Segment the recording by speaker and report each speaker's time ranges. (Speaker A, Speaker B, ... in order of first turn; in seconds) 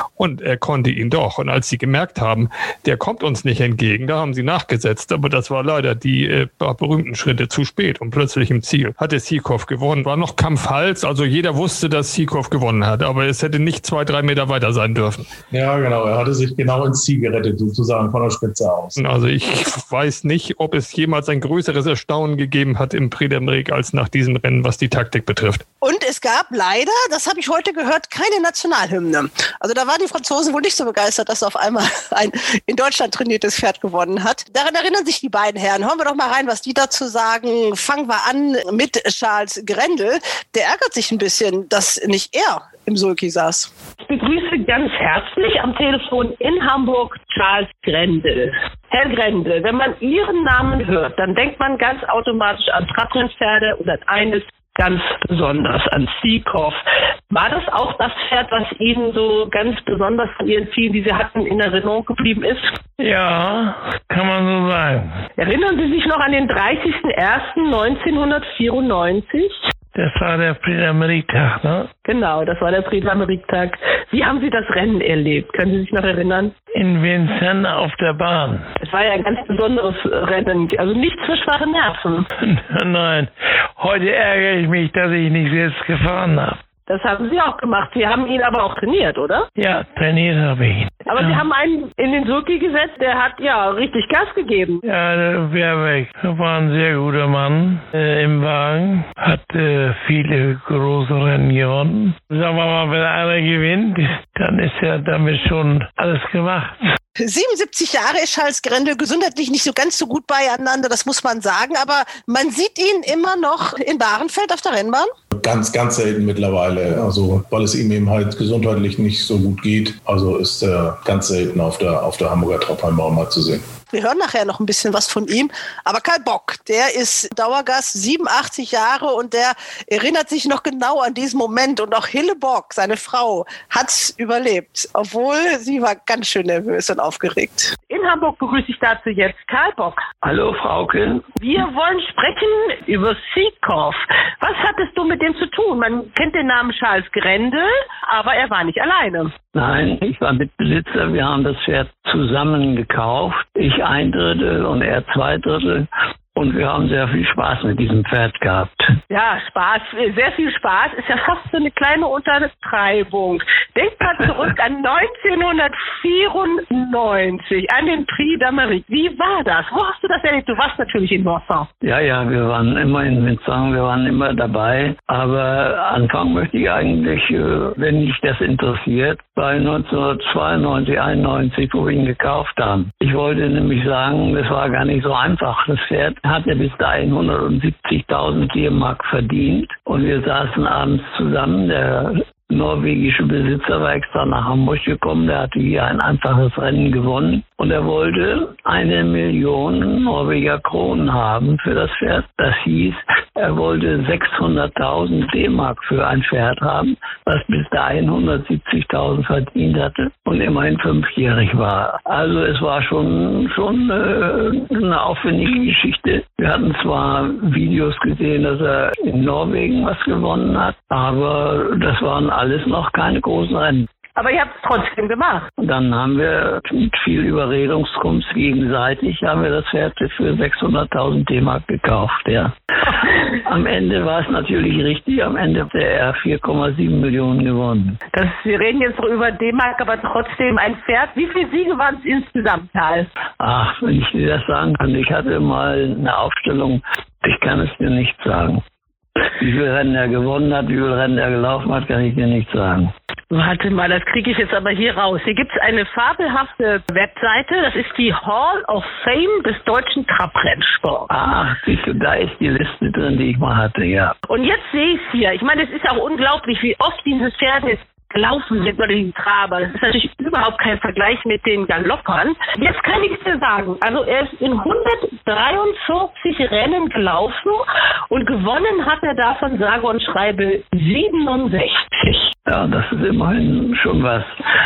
Speaker A: 0.2-15.3, 19.0-25.6
Speaker B: 15.5-19.0, 115.3-123.6
Speaker C: 25.8-43.7, 107.2-115.1, 123.9-137.7
Speaker D: 44.0-56.8, 57.3-62.7, 65.4-69.5, 72.0-76.5, 78.8-82.3, 86.9-89.5, 91.1-94.8, 137.9-140.0, 141.4-149.3, 159.1-171.7, 224.1-225.5, 238.1-243.1, 253.3-261.1, 264.3-282.3
Speaker E: 63.0-65.2, 69.9-71.9, 76.7-78.7, 82.4-86.6, 89.6-91.5, 94.8-106.8
Speaker F: 140.2-141.3, 149.5-158.9, 171.8-223.9, 225.6-238.0, 243.4-248.6, 249.4-252.9, 261.1-264.1, 282.4-284.3